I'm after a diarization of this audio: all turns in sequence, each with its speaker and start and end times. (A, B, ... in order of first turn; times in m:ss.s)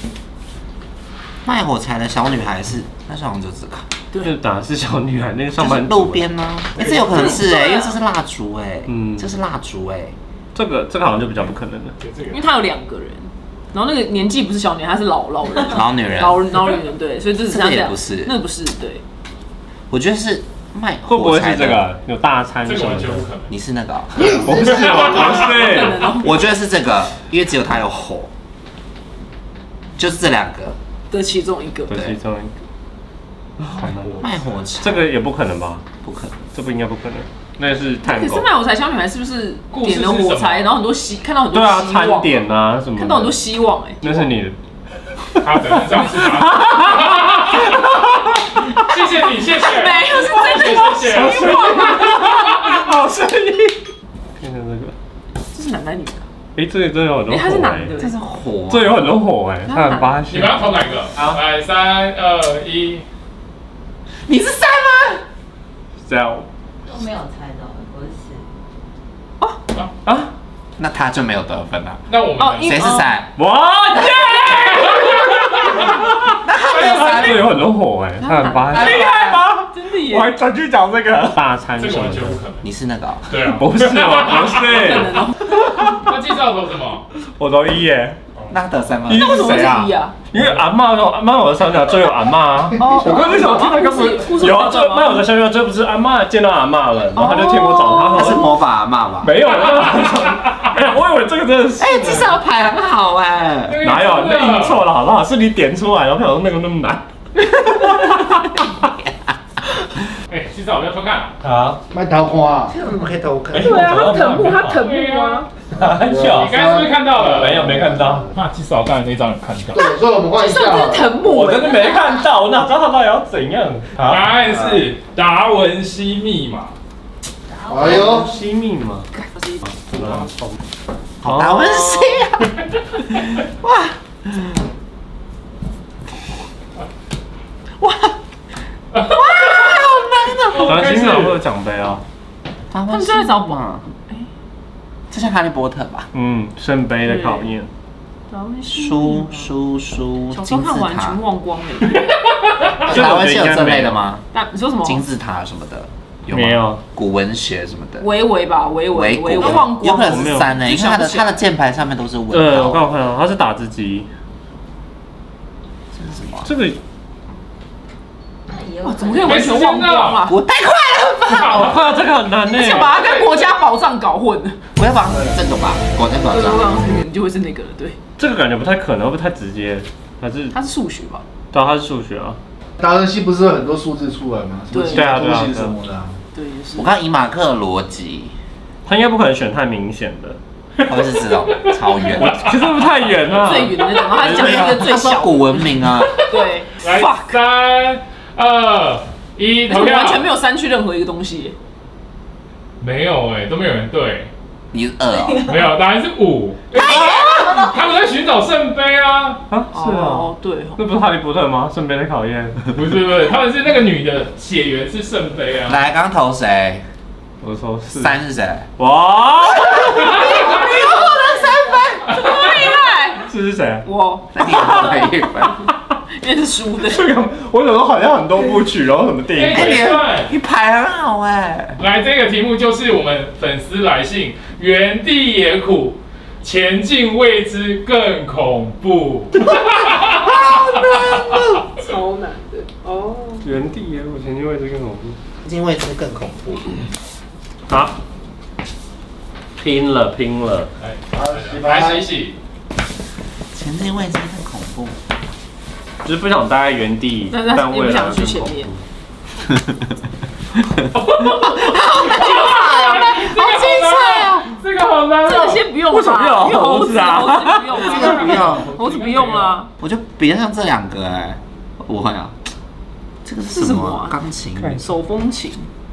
0:01.4-0:03.8 A
0:04.2-0:06.3 B
0:05.6-0:10.1 A
0:06.8-0:07.3 C
0:07.3-0:07.8 D
0:08.9-0:09.3 B
0:10.5-0:12.0 B
0:12.0-0:12.4 C
0:12.3-0:19.0 D
0:15.6-0:16.5 A
0:17.4-0:18.4 A
0:19.9-0:21.8 A
0:21.1-0:23.2 B
0:22.6-0:23.5 C
0:23.5-0:25.3 A
0:24.2-0:26.4 D
0:24.4-0:26.0 B
0:26.2-0:28.3 A
0:30.0-0:30.8 A
0:31.1-0:32.0 D
0:31.9-0:32.5 B
0:33.6-0:34.3 B
0:34.2-0:35.1 A
0:34.8-0:35.8 B
0:36.0-0:36.4 A
0:36.5-0:38.5 B
0:38.0-0:44.3 D
0:39.7-0:40.7 C
0:41.5-0:43.4 B
0:44.0-0:44.6 B
0:45.2-0:48.3 B
0:45.4-0:47.7 C
0:48.7-0:51.4 C
0:49.6-0:52.2 D
0:50.8-0:53.8 B
0:52.1-0:52.6 C
0:54.4-0:54.9 B
0:55.5-0:56.2 D
0:56.5-0:57.9 B
0:57.3-0:58.1 D
0:58.0-0:59.1 A
0:58.7-1:01.4 B
0:59.6-1:01.0 D
1:00.3-1:03.0 C
1:04.3-1:05.2 A
1:06.0-1:06.5 B
1:06.8-1:08.5 E
1:10.0-1:10.3 B
1:10.8-1:12.0 A
1:12.1-1:12.8 C
1:12.4-1:13.2 D
1:12.6-1:13.3 A
1:13.4-1:22.4 B
1:14.6-1:15.8 C
1:16.4-1:17.5 A
1:16.8-1:17.6 C
1:18.2-1:20.4 D
1:18.6-1:19.5 A
1:21.8-1:22.6 C
1:22.6-1:23.4 A
1:23.3-1:24.6 C
1:23.5-1:26.1 B
1:24.6-1:25.6 D
1:26.0-1:27.0 C
1:27.2-1:28.2 B
1:28.5-1:29.6 A
1:29.1-1:38.5 B
1:29.1-1:30.2 D
1:32.8-1:35.3 D
1:37.1-1:38.4 D
1:38.1-1:39.4 A
1:39.2-1:42.3 B
1:41.8-1:43.8 A
1:43.7-1:44.8 C
1:43.8-1:48.4 B
1:48.0-1:49.3 A
1:50.3-1:51.3 C
1:51.4-1:51.8 B
1:51.9-1:52.8 F
1:52.7-1:54.1 A
1:53.5-1:54.9 B
1:53.6-1:55.5 D
1:54.8-1:55.4 C
1:55.7-1:56.6 B
1:55.8-1:58.3 F
1:56.4-1:57.5 C
1:57.2-1:58.3 B
1:58.3-1:59.8 C
1:59.7-2:01.1 F
2:00.3-2:02.2 D
2:01.2-2:04.5 B
2:04.1-2:06.7 C
2:07.5-2:07.8 E
2:07.7-2:08.3 F
2:07.8-2:09.1 B
2:09.3-2:09.7 D
2:09.6-2:10.6 B
2:11.2-2:14.5 A
2:11.2-2:12.2 B
2:17.8-2:18.1 A
2:19.1-2:21.0 A
2:20.5-2:21.4 C
2:20.6-2:22.0 B
2:22.7-2:23.8 A
2:22.9-2:24.3 D
2:25.1-2:26.1 A
2:26.1-2:27.7 B
2:27.0-2:27.5 D
2:28.3-2:29.5 D
2:28.7-2:31.2 A
2:30.3-2:32.1 D
2:32.8-2:34.0 B
2:32.8-2:34.2 A
2:34.3-2:35.0 D
2:34.8-2:38.1 A
2:36.3-2:36.8 B
2:38.0-2:41.4 D
2:38.9-2:42.9 A
2:39.9-2:40.6 B
2:42.3-2:44.1 B
2:45.9-2:46.5 A
2:46.4-2:46.8 B
2:48.5-2:49.6 E
2:48.8-2:50.4 D
2:49.3-2:50.2 C
2:50.2-2:51.8 A
2:51.3-2:51.9 C
2:51.4-2:53.0 B
2:52.5-2:54.6 D
2:52.8-2:53.5 C
2:54.8-2:56.8 A
2:56.3-2:58.0 D
2:58.2-3:00.5 B
3:00.5-3:01.2 D
3:01.5-3:02.4 B
3:02.8-3:06.2 F
3:04.7-3:05.1 D
3:04.9-3:05.8 B
3:06.3-3:06.9 D
3:06.8-3:08.3 A
3:08.8-3:10.4 B
3:10.8-3:12.5 A
3:12.2-3:14.8 B
3:13.3-3:17.4 D
3:14.2-3:16.2 A
3:16.8-3:20.2 C
3:19.7-3:21.5 D
3:22.8-3:24.3 C
3:24.7-3:25.6 A
3:25.4-3:27.1 C
3:26.7-3:27.7 A
3:26.8-3:27.3 B
3:27.3-3:28.0 E
3:27.7-3:29.4 C
3:29.5-3:32.6 B
3:29.7-3:30.8 D
3:32.7-3:35.8 C
3:35.6-3:36.8 A
3:37.4-3:38.2 B
3:38.0-3:38.7 A
3:38.8-3:40.2 B
3:39.5-3:42.7 A
3:40.0-3:40.9 C
3:42.1-3:43.3 D
3:42.1-3:42.7 C
3:43.2-3:43.9 B
3:43.8-3:44.9 D
3:44.3-3:45.7 A
3:46.1-3:47.1 D
3:46.8-3:49.9 B
3:49.3-3:50.3 C
3:49.5-3:51.8 A
3:51.8-4:01.6 C
4:00.2-4:01.6 A
4:01.7-4:03.5 D
4:03.4-4:05.2 B
4:05.4-4:06.9 A
4:07.7-4:08.0 B
4:09.6-4:10.7 B
4:10.8-4:12.4 C
4:11.1-4:12.1 F
4:13.5-4:15.0 A
4:16.0-4:18.8 B
4:17.3-4:18.7 D
4:20.7-4:24.5 A
4:20.9-4:21.7 C
4:21.8-4:23.3 D
4:22.6-4:25.6 C
4:25.2-4:29.7 D
4:25.8-4:28.4 B
4:27.8-4:28.7 A
4:27.8-4:29.6 C
4:29.8-4:32.4 A
4:33.2-4:34.8 A
4:33.5-4:34.2 D
4:34.6-4:34.8 B
4:34.7-4:35.7 D